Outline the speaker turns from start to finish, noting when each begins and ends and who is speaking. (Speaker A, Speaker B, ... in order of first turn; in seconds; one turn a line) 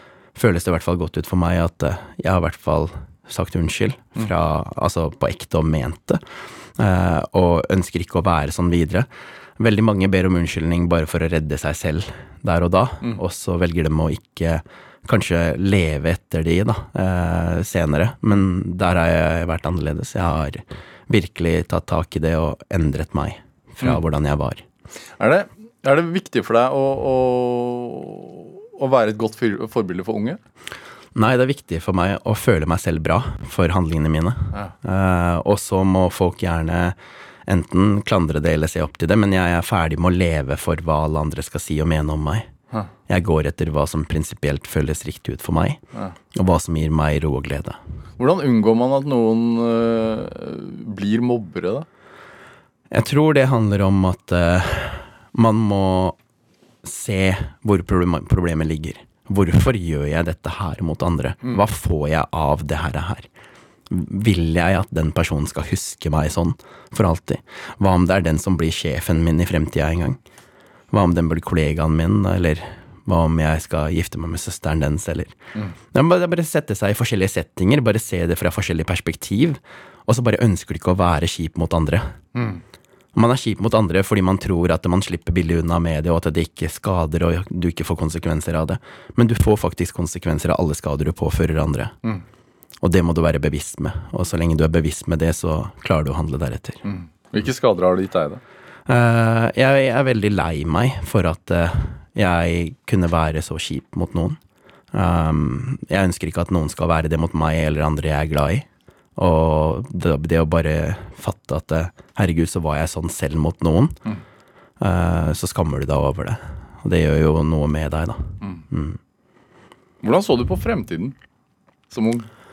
Speaker A: 0.3-6.2
Speaker A: 6.8-24.6
Speaker B: 25.2-30.4
Speaker A: 31.1-42.5
Speaker A: 43.1-45.8
Speaker A: 46.3-47.8
Speaker B: 48.2-51.9
Speaker A: 52.9-56.1
Speaker A: 56.8-63.3
Speaker A: 63.9-70.2
Speaker A: 70.9-75.3
Speaker A: 75.9-82.2
Speaker B: 82.3-82.6
Speaker A: 83.1-91.9
Speaker A: 92.8-96.8
Speaker B: 96.8-98.4
Speaker A: 98.9-104.4
Speaker A: 104.9-114.0
Speaker A: 114.8-119.0
Speaker B: 120.0-121.1
Speaker B: 121.9-122.3